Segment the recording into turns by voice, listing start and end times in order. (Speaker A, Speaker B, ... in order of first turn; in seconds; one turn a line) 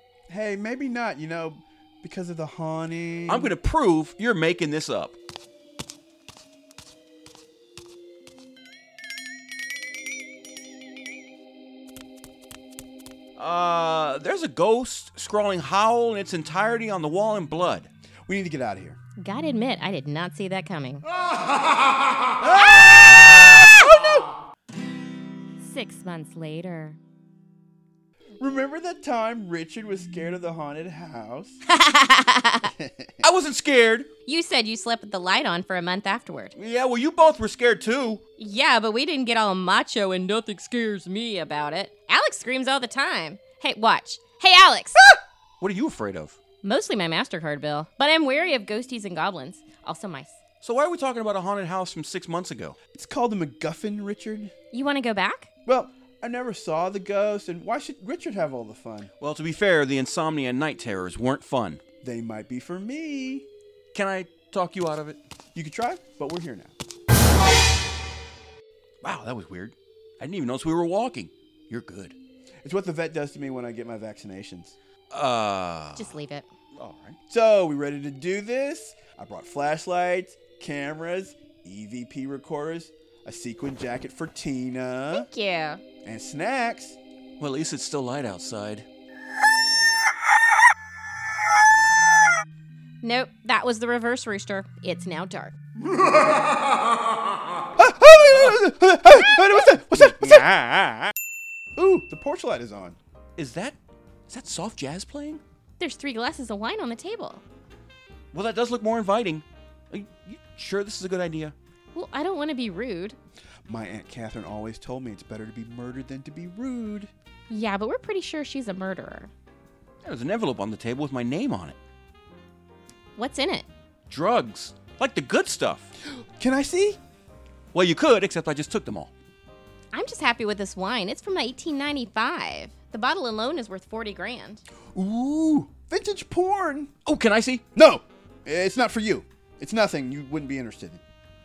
Speaker A: 0.3-3.5
Speaker B: 3.3-5.1
Speaker B: 13.4-17.9
Speaker A: 18.3-19.0
Speaker C: 19.2-21.0
Speaker A: 22.4-24.2
Speaker C: 25.6-27.0
Speaker A: 28.4-31.6
Speaker C: 31.6-32.7
Speaker A: 32.8-33.2
Speaker B: 33.2-34.1
Speaker C: 34.2-36.5
Speaker B: 36.5-38.2
Speaker C: 38.4-45.0
Speaker B: 45.6-46.4
Speaker C: 46.6-50.4
Speaker B: 50.6-52.8
Speaker A: 52.9-54.5
Speaker C: 54.7-55.5
Speaker A: 55.6-59.1
Speaker B: 59.2-61.8
Speaker A: 62.0-63.5
Speaker B: 63.9-65.2
Speaker A: 65.5-66.7
Speaker B: 69.0-72.2
Speaker A: 72.6-74.7
Speaker B: 75.1-76.2
Speaker C: 76.0-76.5
Speaker B: 76.7-77.2
Speaker A: 77.3-85.3
Speaker C: 85.1-85.8
Speaker A: 86.0-87.0
Speaker B: 87.4-88.8
Speaker C: 93.0-95.5
Speaker A: 97.8-100.5
Speaker B: 98.3-101.1
Speaker A: 101.7-103.0
Speaker B: 103.3-103.8
Speaker B: 104.3-105.4
Speaker C: 105.8-107.4
Speaker B: 108.3-111.5
Speaker C: 111.9-113.2
Speaker A: 113.7-117.1
Speaker C: 117.5-119.3
Speaker B: 120.0-121.8
Speaker C: 123.2-123.7
Speaker B: 124.1-125.9
Speaker A: 126.1-127.0
Speaker B: 127.7-129.1
Speaker C: 129.9-134.6
Speaker A: 134.9-136.9
Speaker B: 137.1-137.6
Speaker A: 137.7-141.0